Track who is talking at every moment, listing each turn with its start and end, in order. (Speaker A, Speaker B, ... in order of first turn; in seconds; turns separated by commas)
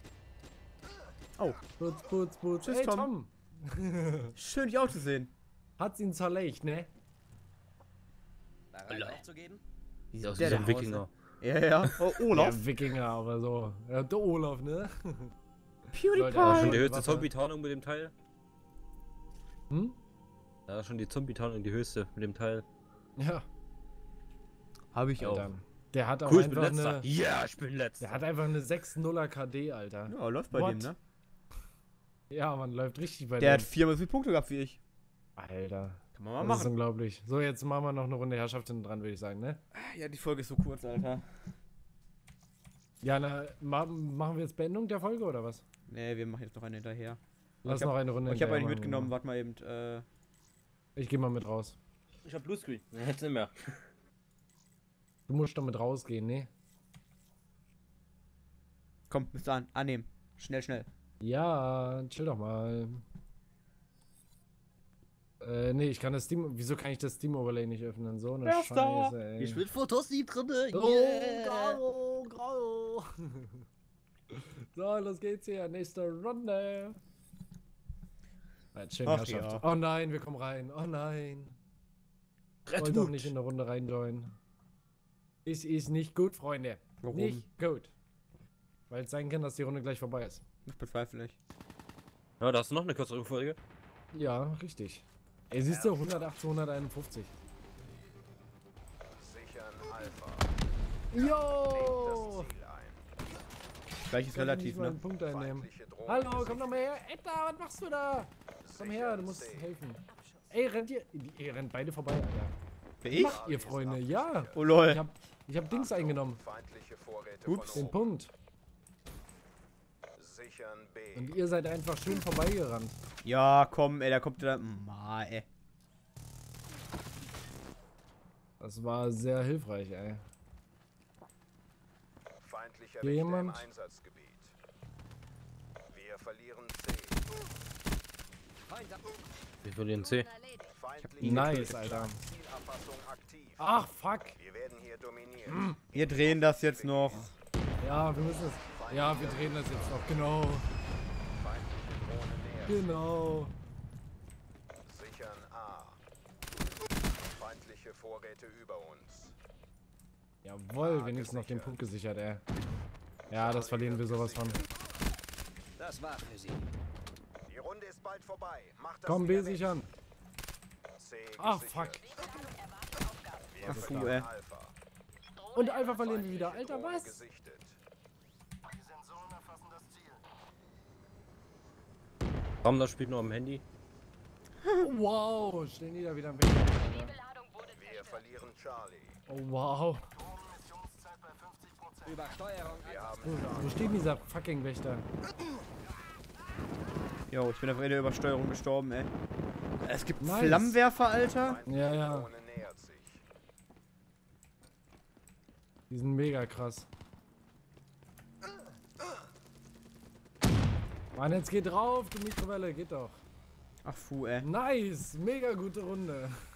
Speaker A: 1.8-4.3, Speaker B: 2.6-3.1, Speaker B: 4.4-5.3, Speaker A: 5.8-6.9, Speaker C: 8.8-9.6, Speaker D: 8.9-9.2, Speaker B: 10.1-12.6, Speaker D: 10.2-11.1, Speaker A: 12.3-15.3, Speaker B: 15.9-16.9, Speaker A: 16.1-17.3, Speaker D: 16.4-18.1, Speaker A: 19.7-20.0, Speaker D: 20.7-22.6, Speaker A: 23.2-23.4, Speaker B: 24.9-25.5, Speaker A: 25.2-27.1, Speaker D: 26.3-28.2, Speaker A: 28.0-30.9, Speaker B: 30.1-31.0, Speaker A: 32.3-33.7, Speaker B: 33.4-34.8, Speaker A: 35.4-39.6, Speaker B: 36.1-36.7, Speaker B: 39.7-41.4, Speaker A: 43.0-45.6, Speaker B: 45.9-50.1, Speaker A: 47.6-49.1, Speaker A: 50.9-51.8, Speaker D: 52.2-53.5, Speaker A: 55.3-56.5, Speaker B: 59.1-60.9, Speaker A: 61.2-63.0, Speaker A: 65.4-69.6, Speaker D: 68.7-71.8, Speaker A: 70.7-73.5, Speaker A: 74.3-77.0, Speaker A: 78.7-81.6, Speaker B: 79.0-79.6, Speaker A: 82.8-84.3, Speaker A: 85.4-87.9, Speaker B: 87.0-87.5, Speaker A: 88.9-90.4, Speaker B: 90.7-91.4, Speaker D: 92.4-93.6, Speaker A: 94.1-97.3, Speaker E: 99.1-100.5, Speaker A: 101.1-102.5, Speaker E: 101.7-103.0, Speaker B: 104.1-105.0, Speaker A: 104.3-112.5, Speaker E: 105.3-106.8, Speaker E: 108.6-109.6, Speaker B: 113.0-113.4, Speaker A: 113.1-116.4, Speaker E: 113.2-114.6, Speaker B: 114.5-115.0, Speaker E: 115.9-117.9, Speaker B: 117.4-117.9, Speaker A: 117.7-118.3, Speaker E: 120.2-121.2, Speaker A: 121.1-123.0, Speaker B: 123.2-125.5, Speaker A: 128.6-130.2, Speaker E: 132.4-134.5, Speaker A: 133.0-133.7, Speaker E: 135.9-137.2, Speaker C: 138.7-139.0, Speaker D: 139.6-140.3, Speaker E: 140.7-143.6, Speaker A: 141.2-142.2, Speaker B: 141.2-141.6, Speaker A: 143.6-144.4, Speaker E: 144.4-145.6, Speaker A: 145.5-145.8, Speaker B: 145.9-147.2, Speaker E: 146.7-147.2, Speaker A: 147.8-150.7, Speaker E: 148.7-150.0, Speaker E: 151.4-152.8, Speaker A: 152.7-153.5, Speaker E: 154.9-156.0, Speaker E: 157.3-159.3, Speaker A: 160.4-162.4, Speaker E: 160.9-161.7, Speaker A: 163.3-164.6, Speaker E: 163.3-164.5, Speaker C: 165.8-166.6, Speaker E: 167.5-169.6, Speaker A: 169.1-169.9, Speaker E: 171.0-171.9, Speaker A: 171.4-172.1, Speaker E: 173.5-174.7, Speaker B: 173.6-174.3, Speaker A: 173.7-174.2, Speaker A: 175.5-177.2, Speaker E: 176.2-177.8, Speaker D: 182.6-183.6, Speaker A: 184.8-187.1, Speaker E: 187.7-189.2, Speaker A: 189.3-190.1, Speaker C: 192.0-193.2, Speaker E: 192.8-194.0, Speaker A: 193.2-195.0, Speaker B: 197.3-199.1, Speaker B: 199.8-201.6, Speaker A: 200.2-200.8, Speaker E: 201.5-203.2, Speaker A: 201.7-202.3, Speaker A: 205.9-206.9, Speaker A: 211.1-213.2, Speaker B: 213.8-214.5, Speaker A: 214.4-216.4